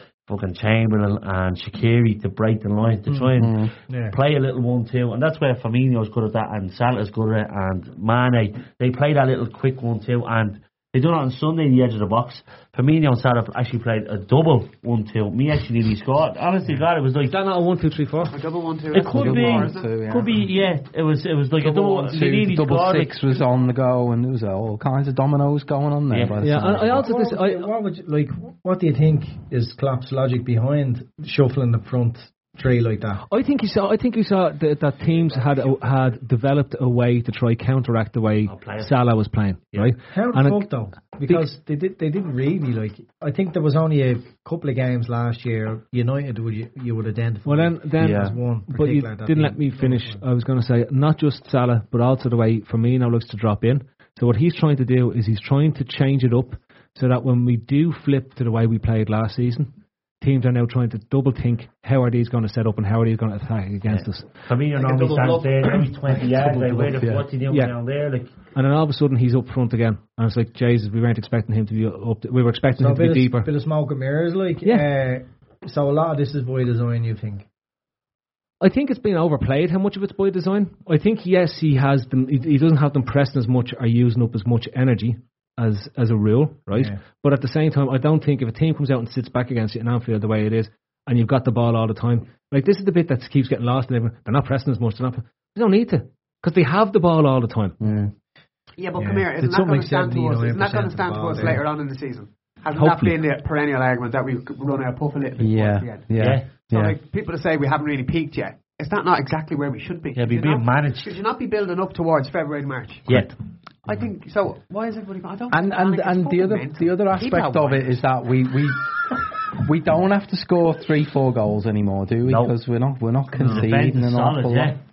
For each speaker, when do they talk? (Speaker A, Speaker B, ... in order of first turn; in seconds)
Speaker A: 0.2-17.3, 18.9-23.1, 26.1-26.4, 38.5-38.9, 63.9-68.3, 106.2-106.5, 110.1-111.2, 113.1-113.3, 122.2-122.5, 123.4-124.8
Speaker B: 3.4-3.7, 19.1-20.3, 21.6-27.1, 48.0-48.3, 66.5-67.2, 97.8-98.1, 105.4-107.0, 115.5-118.9, 119.5-124.7
Speaker C: 3.9-4.2, 26.8-33.2, 40.1-50.2, 72.8-77.4, 86.7-87.0, 99.0-101.6, 123.4-123.6
Speaker D: 17.3-18.4, 26.4-27.7, 33.3-40.7, 47.4-64.3, 68.5-73.5, 78.6-97.8, 102.7-103.2
Speaker E: 18.3-19.9, 64.8-65.5, 98.8-113.3, 113.8-118.0